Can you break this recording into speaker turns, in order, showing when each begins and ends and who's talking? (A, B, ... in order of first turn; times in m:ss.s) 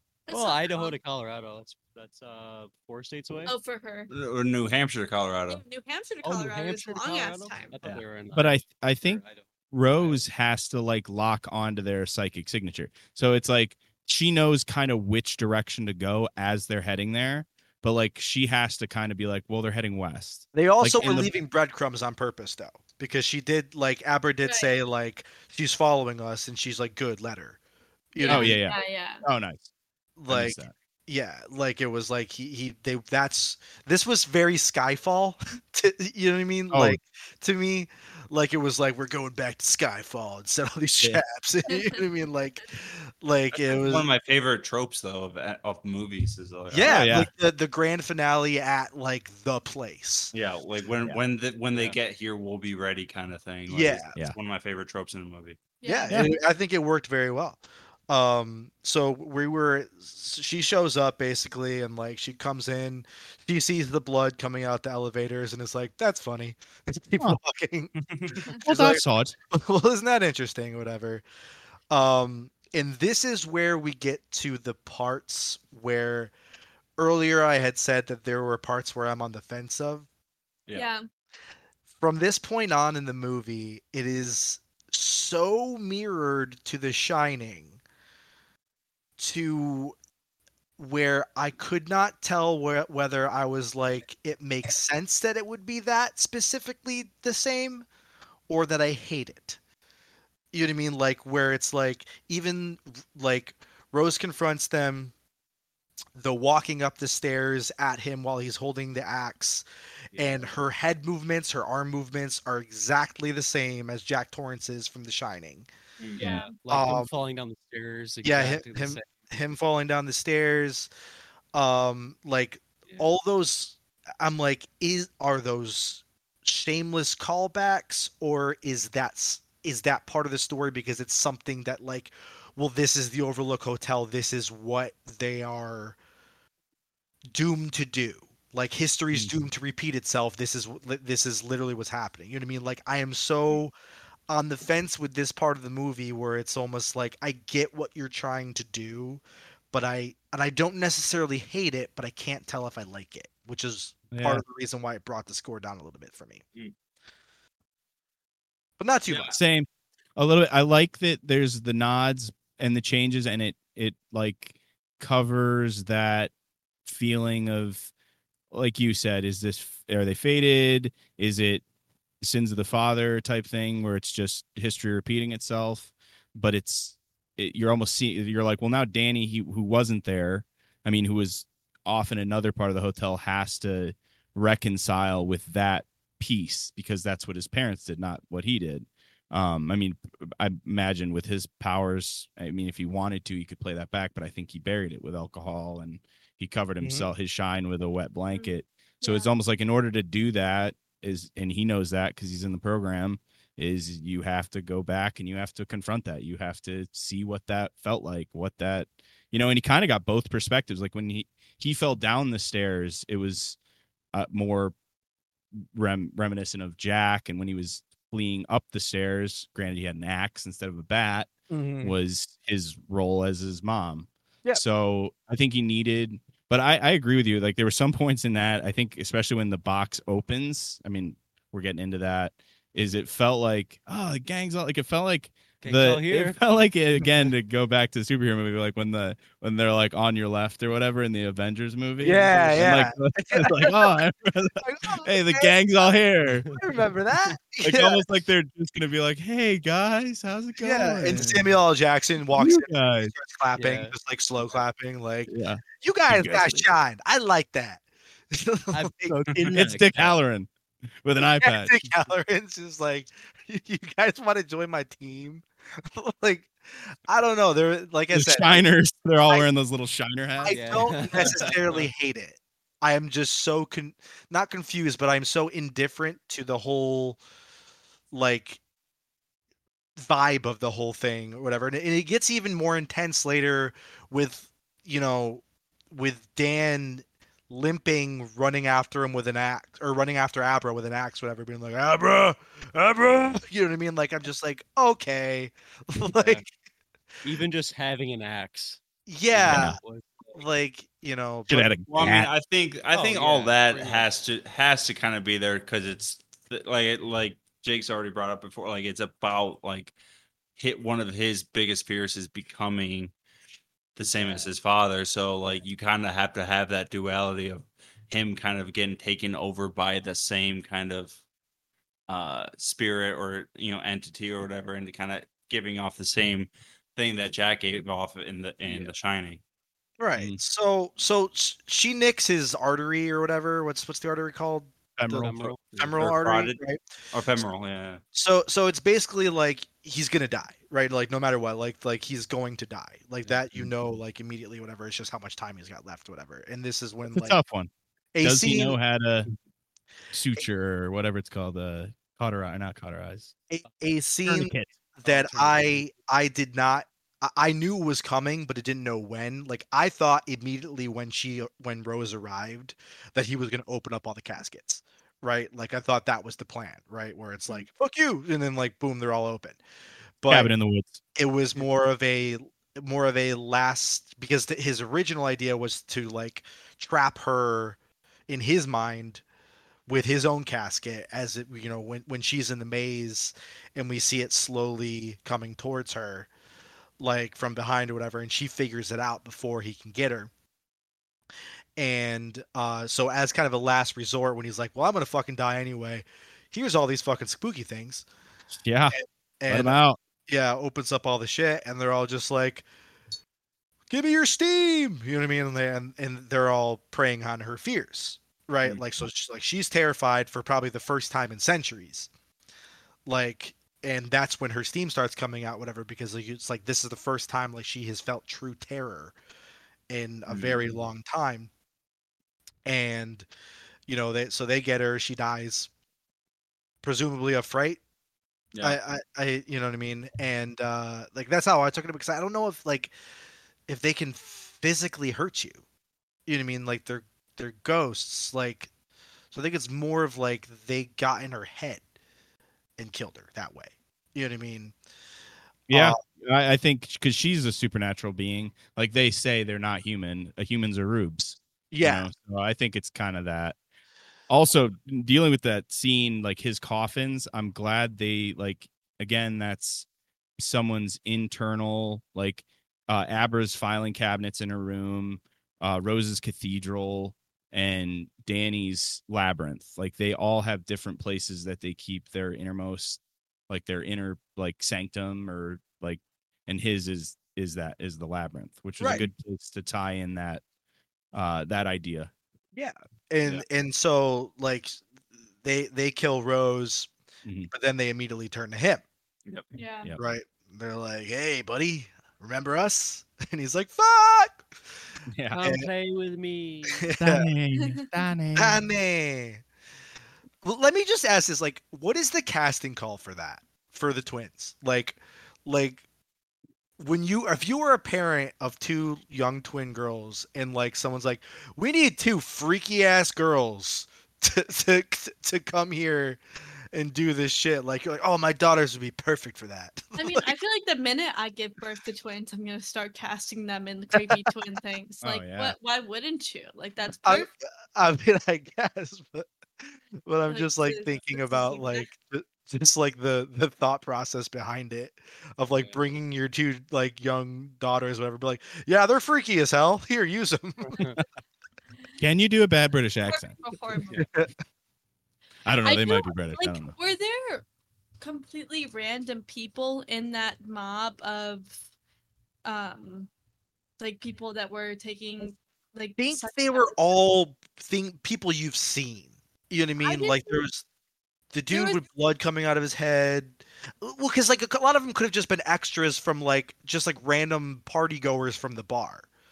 0:00.3-0:01.0 A
0:00.3-0:03.5 B
0:03.4-0:04.1 A
0:04.1-0:05.6 C
0:05.5-0:07.8 A
0:06.2-0:10.2 B
0:08.3-0:21.3 D
0:20.5-0:27.6 E
0:24.4-0:24.7 A
0:28.1-0:28.6 E
0:28.2-0:29.2 A
0:28.3-0:29.7 D
0:30.2-0:44.1 E
0:30.3-0:30.7 D
0:36.7-0:37.0 D
0:41.7-0:42.0 A
0:43.5-0:47.1 C
0:46.7-0:50.3 E
0:46.8-0:47.3 D
0:50.3-0:55.6 C
0:53.7-0:54.1 E
0:55.8-0:56.3 A
0:55.8-1:11.2 E
1:08.1-1:08.4 C
1:08.6-1:09.4 D
1:11.9-1:16.3 E
1:17.0-1:20.1 E
1:20.7-1:21.0 A
1:22.0-1:27.8 E
1:29.2-1:29.9 E
1:30.8-1:37.8 E
1:38.5-1:39.6 E
1:40.5-1:45.1 E
1:46.2-1:49.6 E
1:50.2-1:55.7 E
1:50.2-1:50.5 B
1:56.2-1:59.1 B
1:56.2-1:56.6 A
1:56.7-1:57.1 E
1:58.2-2:00.9 E
2:01.5-2:16.0 E
2:02.9-2:03.1 B
2:17.3-2:23.7 E
2:24.3-2:36.4 E
2:34.1-2:34.4 D
2:38.8-2:39.3 E
2:39.1-2:39.4 C
2:39.3-2:46.3 D
2:46.8-2:47.9 D
2:48.5-2:51.6 D
2:52.2-3:33.6 D
3:18.3-3:19.3 A
3:34.1-3:34.7 D
3:35.6-4:06.5 D
3:41.5-3:41.9 E
3:55.6-3:56.4 B
4:02.0-4:03.9 E
4:02.0-4:02.7 B
4:04.6-4:05.9 E
4:06.6-4:08.0 E
4:07.6-4:11.6 D
4:10.6-4:19.2 E
4:12.3-4:13.1 D
4:13.6-4:13.9 B
4:15.3-4:16.7 D
4:18.7-4:20.2 B
4:19.5-4:20.5 D
4:21.0-4:21.8 D
4:21.4-4:26.6 E
4:27.1-4:28.6 E
4:28.1-4:31.5 D
4:30.4-4:37.2 E
4:30.5-4:31.9 B
4:38.1-4:38.6 E
4:40.0-4:56.4 E
4:56.1-4:56.4 B
4:57.2-4:58.8 B
4:59.1-4:59.8 E
4:59.3-5:00.4 B
4:59.4-4:59.8 D
5:00.3-5:01.7 E
5:01.5-5:02.3 D
5:01.9-5:09.9 C
5:02.9-5:04.0 B
5:10.6-5:13.1 C
5:14.0-5:21.2 C
5:14.1-5:14.5 B
5:22.1-5:29.4 C
5:28.6-5:28.9 B
5:30.0-5:36.8 E
5:35.0-5:35.6 D
5:35.2-5:36.0 B
5:36.0-5:36.6 C
5:37.1-5:38.0 C
5:38.1-5:47.4 E
5:47.1-5:47.7 D
5:48.1-5:48.8 E
5:48.2-5:49.3 D
5:50.1-5:53.3 D
5:53.5-6:09.6 E
5:54.2-5:55.6 D
5:55.1-5:55.6 B
6:10.2-6:10.5 E
6:10.3-6:11.0 D
6:11.2-6:19.2 E
6:19.9-6:26.3 E
6:27.0-6:30.3 E
6:31.8-6:38.0 E
6:38.6-6:39.0 D
6:38.9-6:42.6 E
6:39.5-6:40.0 D
6:43.9-6:52.1 E
6:53.0-6:59.1 E
6:59.9-7:01.5 E
7:00.3-7:00.6 C
7:02.6-7:03.3 E
7:03.9-7:05.7 E
7:06.8-7:07.8 E
7:08.6-7:12.9 E
7:13.7-7:15.6 E
7:16.3-7:18.7 E
7:19.3-7:21.8 E
7:22.8-7:24.7 E
7:25.7-7:26.0 E
7:25.7-7:33.6 D
7:31.7-7:32.1 E
7:34.3-7:39.8 D
7:40.4-8:00.4 D
7:58.8-7:59.1 E
8:01.1-8:02.1 D
8:02.5-8:04.8 E
8:05.4-8:06.9 E
8:07.2-8:07.5 D
8:07.5-8:08.8 E
8:09.5-8:09.9 A
8:10.0-8:14.4 E
8:15.1-8:15.4 D
8:15.3-8:16.8 B
8:16.8-8:17.3 E
8:17.0-8:18.6 D
8:17.5-8:17.8 A
8:18.4-8:19.4 E
8:20.4-8:25.8 E
8:26.8-8:36.2 E
8:36.7-8:40.3 E
8:40.0-8:47.3 A
8:45.0-8:45.5 D
8:47.0-9:00.8 E
8:50.3-8:51.9 A
9:00.6-9:01.0 B
9:02.0-9:03.4 D
9:03.1-9:04.1 A
9:03.9-9:04.3 E
9:05.4-9:06.7 D
9:05.6-9:07.4 A
9:08.0-9:11.6 A
9:12.4-9:13.1 A
9:13.8-9:16.8 A
9:16.0-9:20.6 E
9:19.8-9:20.4 A
9:21.3-9:29.1 E
9:21.5-9:21.8 A